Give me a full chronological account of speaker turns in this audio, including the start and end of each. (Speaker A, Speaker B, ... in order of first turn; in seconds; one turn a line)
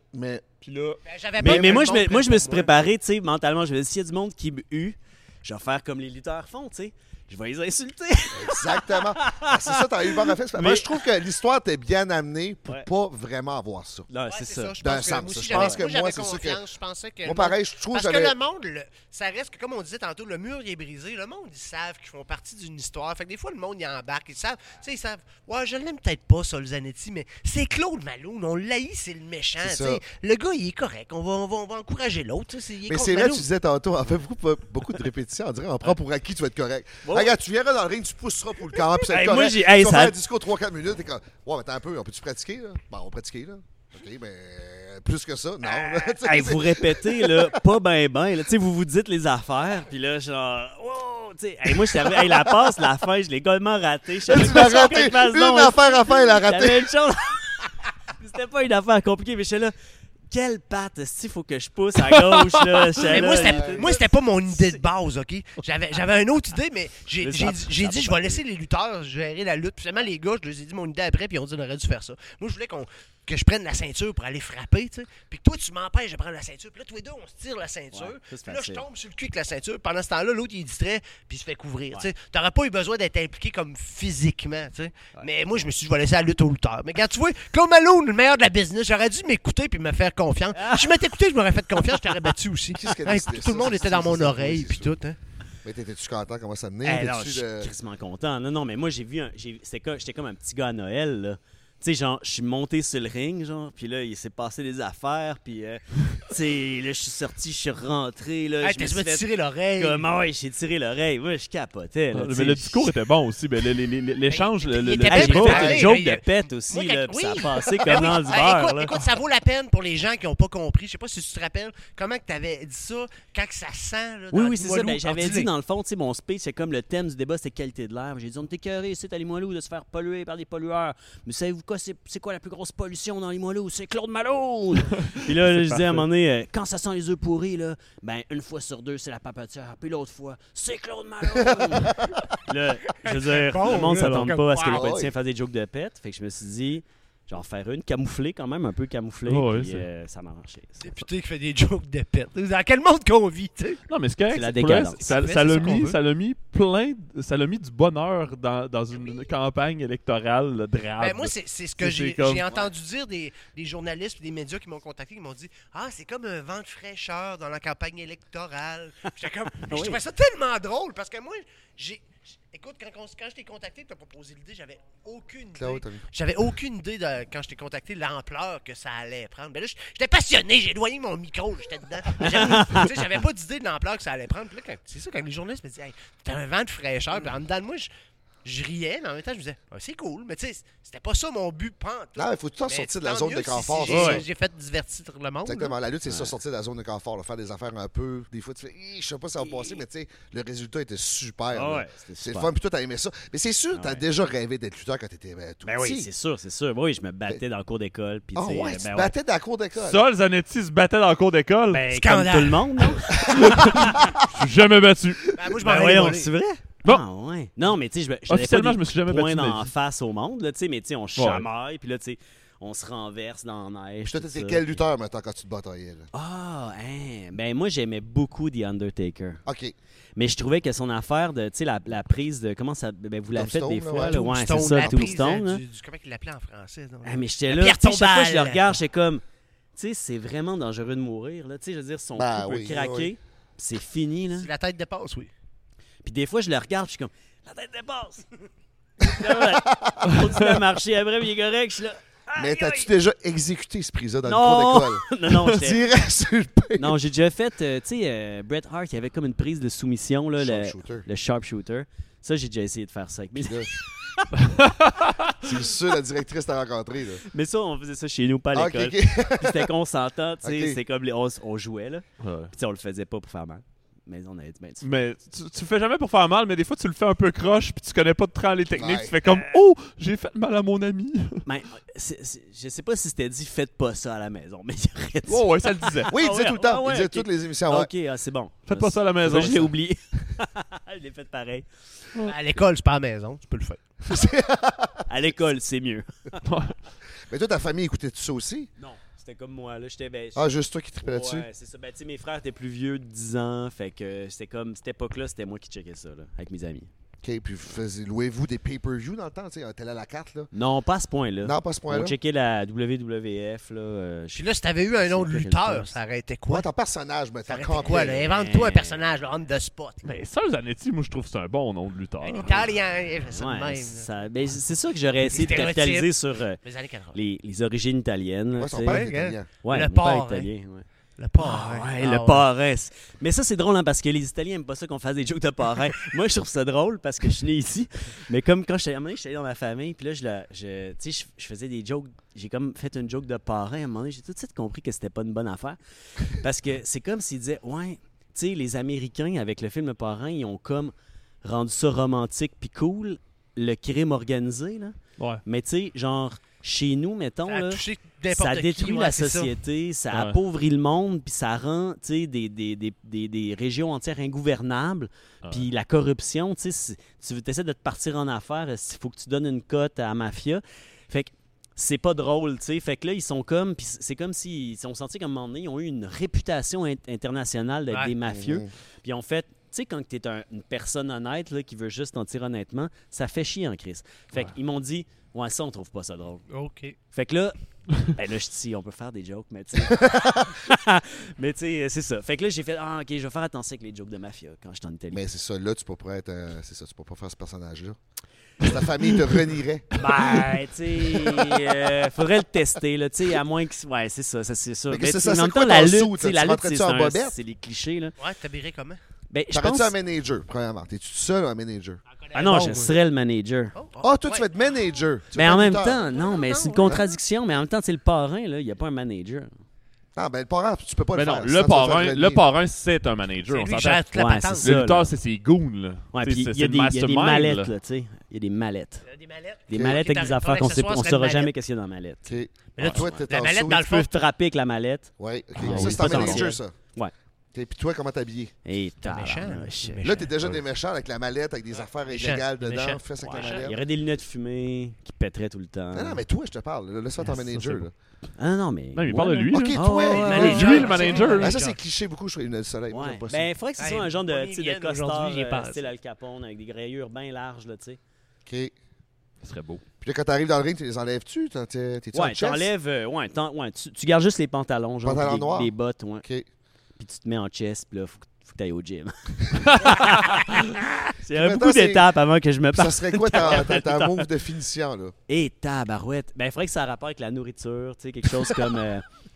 Speaker A: 0.1-0.4
Speaker B: 0.6-1.0
Speaker C: 1.0-2.9
Speaker D: 1.4-11.0
Speaker A: 1.4-1.9
Speaker A: 8.3-14.1
Speaker D: 14.1-14.8
Speaker C: 14.3-33.5
Speaker A: 14.8-16.6
Speaker D: 15.5-15.8
Speaker A: 17.2-18.4
Speaker A: 29.6-30.0
Speaker A: 32.9-47.6
Speaker D: 37.0-37.3
Speaker D: 38.8-40.1
Speaker D: 45.6-59.7
Speaker A: 54.2-56.9
Speaker D: 60.3-64.8
Speaker C: 63.0-95.2
Speaker A: 63.2-64.0
Speaker D: 67.2-68.4
Speaker D: 77.9-78.8
Speaker D: 85.2-85.7
Speaker D: 90.5-91.0
Speaker A: 92.7-95.0
Speaker A: 95.6-97.7
Speaker D: 96.8-112.9
Speaker C: 108.6-110.1
Speaker B: 112.1-115.8
Speaker C: 114.3-125.5
Speaker D: 115.0-118.9
Speaker D: 124.3-151.0
Speaker B: 135.0-136.0
Speaker A: 141.2-142.3
Speaker C: 143.0-144.8
Speaker B: 143.7-144.3
Speaker A: 144.6-145.1
Speaker B: 149.2-149.9
Speaker C: 150.8-153.8
Speaker B: 153.9-162.4
Speaker D: 154.3-155.8
Speaker C: 155.0-156.0
Speaker C: 161.0-187.9
Speaker D: 169.7-170.0
Speaker A: 175.6-176.0
Speaker D: 182.2-182.9
Speaker C: 188.4-195.7
Speaker A: 192.2-194.2
Speaker D: 193.8-194.2
Speaker A: 195.4-206.1
Speaker D: 196.1-196.3
Speaker D: 201.5-202.5
Speaker D: 203.7-204.0
Speaker D: 205.6-209.1
Speaker A: 208.3-210.0
Speaker B: 209.8-211.8
Speaker D: 211.7-214.0
Speaker C: 211.9-213.0
Speaker B: 213.3-215.2
Speaker A: 213.8-214.2
Speaker C: 215.3-216.3
Speaker D: 215.6-224.8
Speaker B: 218.3-219.7
Speaker B: 221.2-221.5
Speaker A: 224.0-226.1
Speaker D: 226.1-229.4
Speaker A: 229.4-229.7
Speaker D: 230.2-235.6
Speaker A: 233.3-235.2
Speaker C: 233.9-238.7
Speaker D: 237.0-239.2
Speaker D: 239.8-244.5
Speaker A: 242.1-243.2
Speaker C: 244.3-245.3
Speaker D: 246.0-248.2
Speaker D: 249.0-252.9
Speaker A: 249.0-250.2
Speaker B: 250.1-250.5
Speaker A: 252.3-257.0
Speaker D: 254.2-255.8
Speaker D: 256.8-264.3
Speaker A: 260.4-261.1
Speaker A: 263.4-263.7
Speaker B: 264.4-265.4
Speaker A: 265.4-267.2
Speaker D: 267.3-274.8
Speaker A: 268.5-269.7
Speaker A: 270.4-270.8
Speaker B: 272.2-272.5
Speaker B: 274.8-281.4
Speaker A: 278.7-279.1
Speaker D: 279.2-279.6
Speaker D: 281.4-291.7
Speaker B: 285.3-286.1
Speaker A: 286.1-287.9
Speaker B: 288.7-289.7
Speaker C: 292.3-293.8
Speaker A: 294.0-295.0
Speaker D: 295.1-296.4
Speaker B: 296.4-296.7
Speaker A: 297.3-298.7
Speaker D: 298.8-300.5
Speaker A: 300.3-301.5
Speaker D: 301.0-306.9
Speaker A: 307.2-310.5
Speaker D: 310.5-314.4
Speaker A: 311.4-312.2
Speaker C: 314.3-316.7
Speaker D: 315.0-316.0
Speaker A: 316.5-318.2
Speaker C: 317.5-320.1
Speaker D: 317.9-319.0
Speaker B: 320.0-322.7
Speaker C: 322.2-324.1
Speaker D: 323.3-326.6
Speaker C: 325.2-327.2
Speaker D: 327.1-330.9
Speaker A: 328.6-329.5
Speaker C: 328.8-330.5
Speaker C: 331.2-332.5
Speaker D: 331.4-386.4
Speaker C: 357.4-359.5
Speaker B: 360.1-360.4
Speaker A: 378.2-378.7
Speaker C: 386.5-386.9
Speaker D: 387.1-395.2
Speaker A: 389.7-390.5
Speaker A: 395.1-398.0
Speaker A: 398.6-399.9
Speaker D: 399.9-408.1
Speaker A: 404.9-407.4
Speaker C: 408.2-409.0
Speaker D: 409.3-409.9
Speaker A: 409.5-412.0
Speaker C: 412.1-412.9
Speaker D: 412.3-413.7
Speaker C: 413.7-414.5
Speaker A: 414.0-416.0
Speaker D: 415.3-419.5
Speaker C: 415.8-417.0
Speaker A: 416.8-417.1
Speaker A: 420.1-422.4
Speaker B: 421.1-424.1
Speaker C: 423.5-424.7
Speaker D: 424.1-425.1
Speaker B: 424.6-427.7
Speaker D: 426.1-429.0
Speaker C: 429.0-431.5
Speaker D: 429.7-437.1
Speaker A: 429.7-430.0
Speaker A: 432.2-433.9
Speaker C: 432.8-434.1
Speaker A: 435.2-436.8
Speaker B: 435.6-436.5
Speaker A: 437.5-438.5
Speaker D: 438.6-440.2
Speaker C: 439.0-440.3
Speaker A: 440.0-443.8
Speaker C: 442.1-443.6
Speaker D: 443.2-446.2
Speaker A: 445.9-447.9
Speaker D: 448.4-451.3
Speaker B: 448.9-451.6
Speaker A: 449.5-453.5
Speaker C: 450.1-451.8
Speaker D: 452.9-458.0
Speaker C: 453.8-455.9
Speaker A: 458.4-458.7
Speaker B: 459.4-459.8
Speaker A: 460.0-462.7
Speaker D: 462.1-466.2
Speaker A: 465.0-465.7
Speaker D: 467.0-474.3
Speaker B: 469.7-470.3
Speaker A: 471.3-472.1
Speaker A: 472.7-475.1
Speaker D: 475.3-479.0